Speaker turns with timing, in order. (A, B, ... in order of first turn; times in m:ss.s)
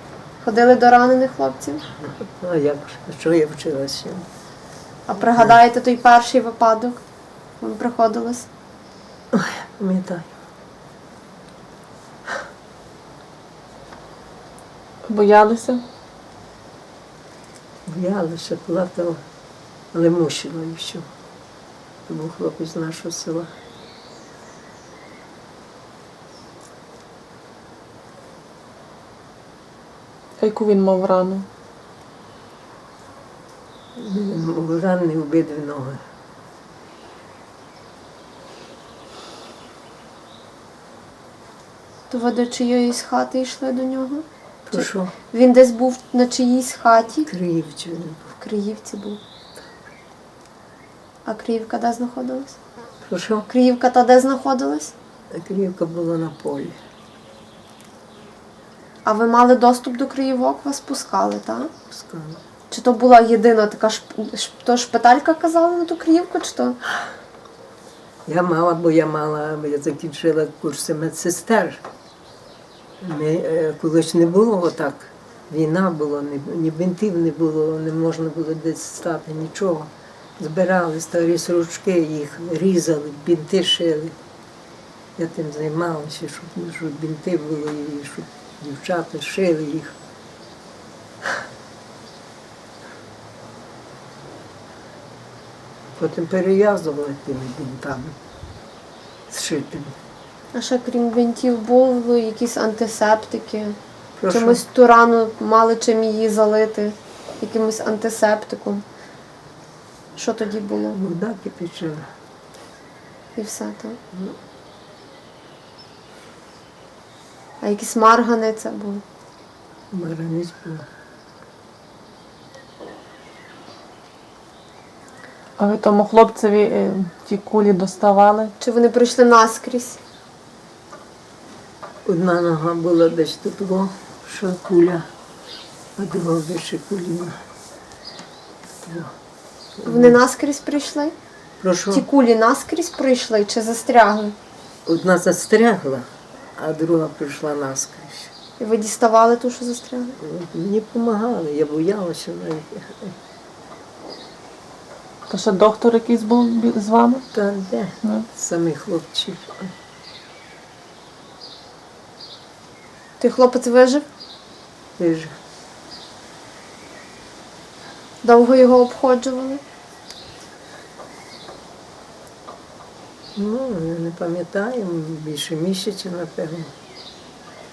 0:00.4-0:01.8 A
0:02.0-0:04.2 B
0:05.1-0:07.0 A
0:05.3-0:05.6 B
0:07.6-0:08.5 A
0:09.3-0:10.3 B
0:15.0-0:15.8 C
0:17.8-0:19.2 B
0:19.9-0:21.0 B
0:22.1-0:23.5 B
0:30.4-0:31.4 C
0:34.0-0:36.0 B
0:42.1-0:47.3 A
0:44.7-0:45.1 B
0:47.2-0:48.2 B
0:48.3-0:49.2 A
0:51.2-0:52.6 A
0:53.0-0:53.5 B
0:53.5-0:54.9 A
0:55.3-0:56.8 B
0:59.0-1:01.7 A
1:01.9-1:02.4 B
1:02.7-1:06.8 A
1:08.2-1:11.8 B
1:13.0-1:24.1 B
1:25.2-1:29.9 B
1:36.0-1:38.2 B
1:39.3-1:39.9 B
1:40.5-1:43.8 A
1:44.2-1:44.6 B
1:44.3-1:48.8 A
1:50.2-1:51.0 A
1:50.9-1:52.0 B
1:53.4-1:54.0 A
1:57.6-1:59.0 A
1:59.9-2:00.8 B
2:05.6-2:08.5 C
2:08.6-2:10.0 A
2:12.0-2:15.1 B
2:16.0-2:17.4 B
2:18.8-2:19.1 B
2:19.8-2:20.2 B
2:19.8-2:21.1 A
2:21.6-2:22.1 B
2:21.9-2:24.4 A
2:24.8-2:28.3 B
2:28.6-2:30.2 A
2:30.2-2:33.1 B
2:35.3-2:37.2 C
2:37.3-2:39.7 B
2:43.2-2:44.0 A
2:45.0-2:45.3 B
2:48.2-2:49.6 A
2:53.4-2:56.7 B